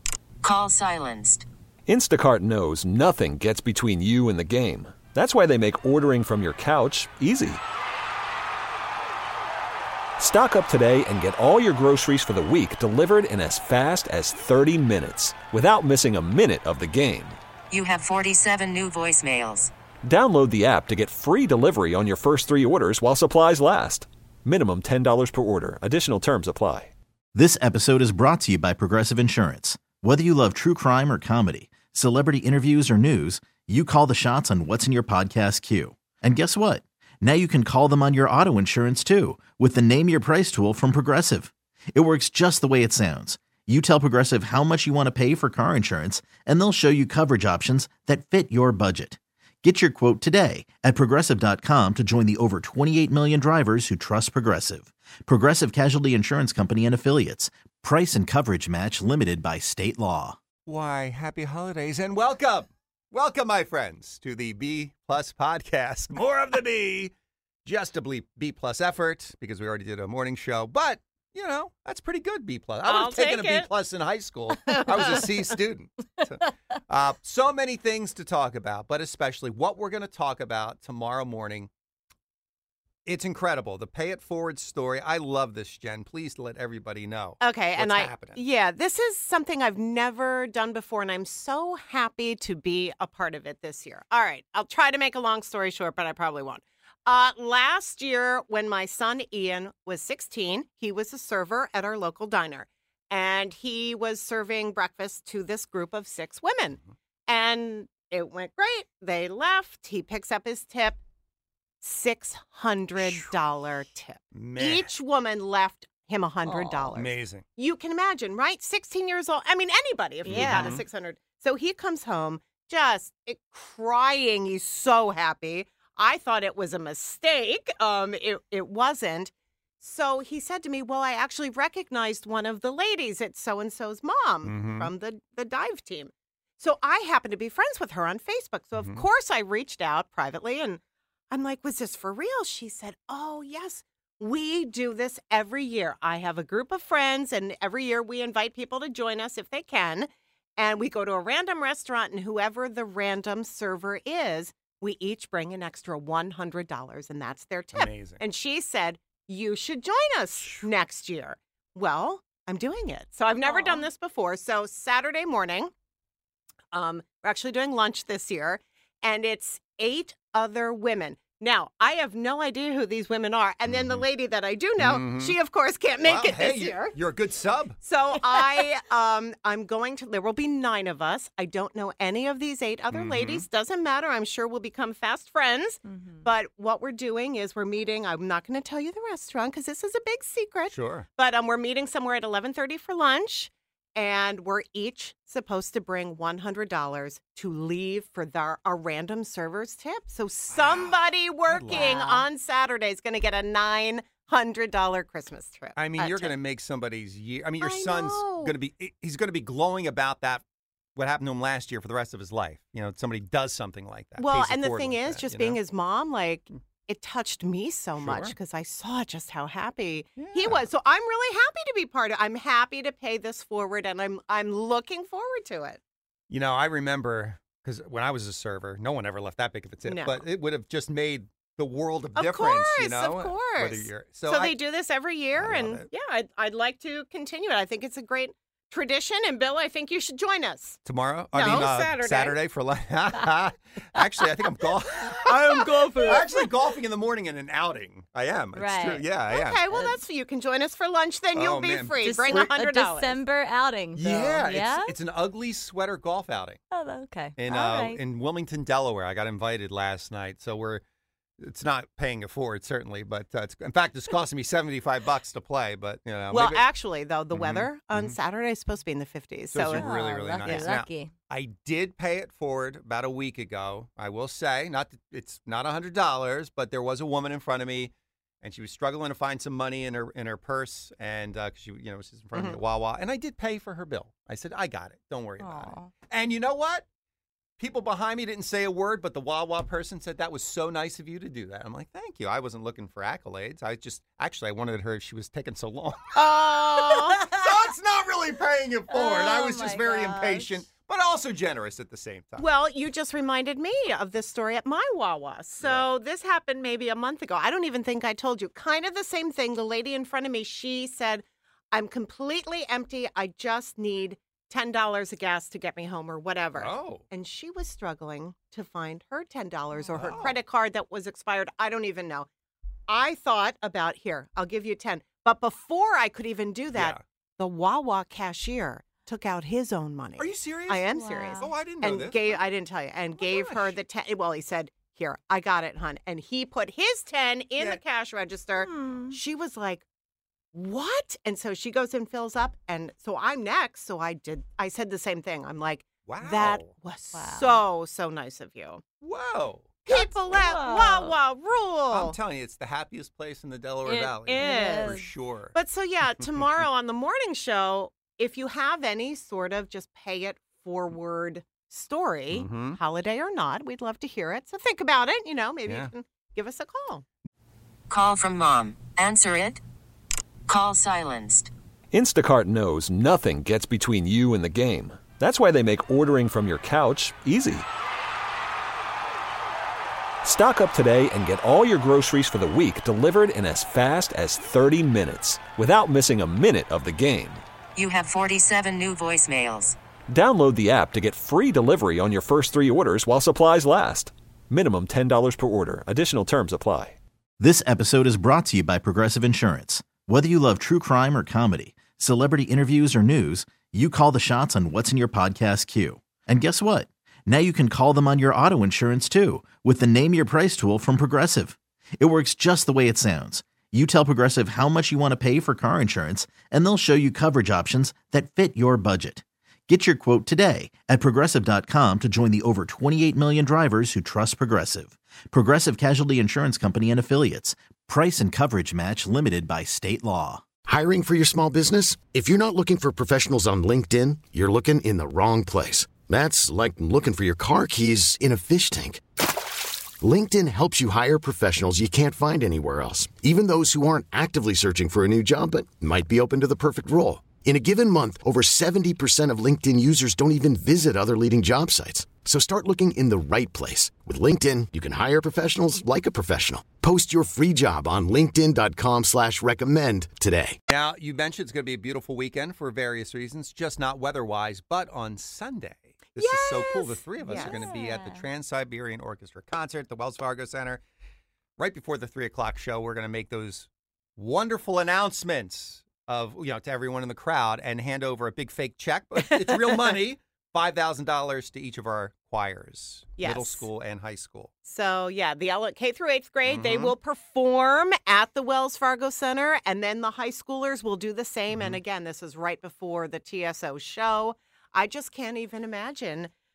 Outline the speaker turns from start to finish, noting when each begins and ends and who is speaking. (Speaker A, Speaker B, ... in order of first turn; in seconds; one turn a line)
Speaker A: 0.4-1.4
Speaker B: 1.9-7.6
Speaker B: 10.2-17.4
Speaker A: 17.7-19.7
Speaker B: 20.0-26.9
Speaker C: 27.3-60.4
Speaker D: 60.6-67.1
Speaker D: 67.7-81.7
Speaker E: 72.8-73.7
Speaker E: 74.7-75.1
Speaker D: 83.0-88.4
Speaker E: 87.4-111.0
Speaker E: 111.8-165.7
Speaker D: 114.3-114.9
Speaker F: 116.4-116.9
Speaker D: 116.9-117.5
Speaker D: 120.2-120.8
Speaker D: 134.4-134.9
Speaker D: 138.8-139.0
Speaker D: 157.7-158.2
Speaker F: 163.4-163.8
Speaker E: 166.7-177.0
Speaker D: 173.7-174.0
Speaker D: 174.8-175.4
Speaker D: 176.0-177.8
Speaker E: 177.8-206.3
Speaker D: 182.9-183.5
Speaker F: 185.9-186.2
Speaker D: 190.7-191.1
Speaker D: 200.5-202.0
Speaker F: 201.7-202.2
Speaker D: 205.7-210.4
Speaker E: 207.6-208.6
Speaker D: 210.9-215.6
Speaker E: 214.2-225.8
Speaker D: 218.0-218.3
Speaker D: 220.2-220.6
Speaker D: 226.3-234.6
Speaker E: 229.8-230.3
Speaker E: 232.1-240.8
Speaker D: 235.3-235.9
Speaker D: 240.8-249.8
Speaker E: 241.3-242.4
Speaker F: 245.2-246.3
Speaker E: 245.3-246.4
Speaker F: 248.5-249.1
Speaker E: 249.2-253.2
Speaker F: 249.7-250.0
Speaker D: 251.3-252.5
Speaker F: 252.0-254.9
Speaker D: 253.9-256.6
Speaker F: 256.7-258.0
Speaker D: 257.4-260.8
Speaker D: 261.4-266.7
Speaker E: 266.3-270.7
Speaker D: 267.3-268.2
Speaker D: 269.5-286.8
Speaker F: 269.6-271.1
Speaker E: 282.3-282.6
Speaker F: 285.4-285.9
Speaker D: 287.6-296.1
Speaker E: 296.1-297.3
Speaker D: 297.2-302.5
Speaker F: 298.9-300.6
Speaker E: 302.4-322.3
Speaker D: 305.6-305.9
Speaker D: 316.6-317.1
Speaker D: 319.9-320.4
Speaker E: 322.9-339.8
Speaker D: 326.7-327.0
Speaker D: 330.2-332.4
Speaker F: 330.9-331.5
Speaker D: 333.2-333.8
Speaker F: 338.6-339.2
Speaker E: 340.5-348.8
Speaker D: 346.1-346.7
Speaker F: 347.1-347.6
Speaker D: 349.0-350.4
Speaker E: 349.9-352.2
Speaker F: 350.3-351.1
Speaker D: 351.9-355.6
Speaker F: 353.8-355.1
Speaker E: 354.1-355.0
Speaker E: 355.5-367.0
Speaker D: 362.3-362.8
Speaker D: 365.6-365.9
Speaker A: 367.9-369.6
Speaker A: 370.5-371.5
Speaker B: 371.9-377.7
Speaker B: 380.2-387.4
Speaker A: 387.8-389.8
Speaker B: 390.1-396.9
Speaker C: 397.4-430.4
Speaker G: 430.6-439.0
Speaker G: 440.0-460.6
Speaker D: 460.7-470.8
Speaker E: 466.2-467.7
Speaker F: 467.2-468.2
Speaker D: 471.6-484.5
Speaker E: 479.2-479.8
Speaker E: 483.2-483.7
Speaker E: 484.6-496.3
Speaker D: 486.4-486.9
Speaker D: 491.5-491.8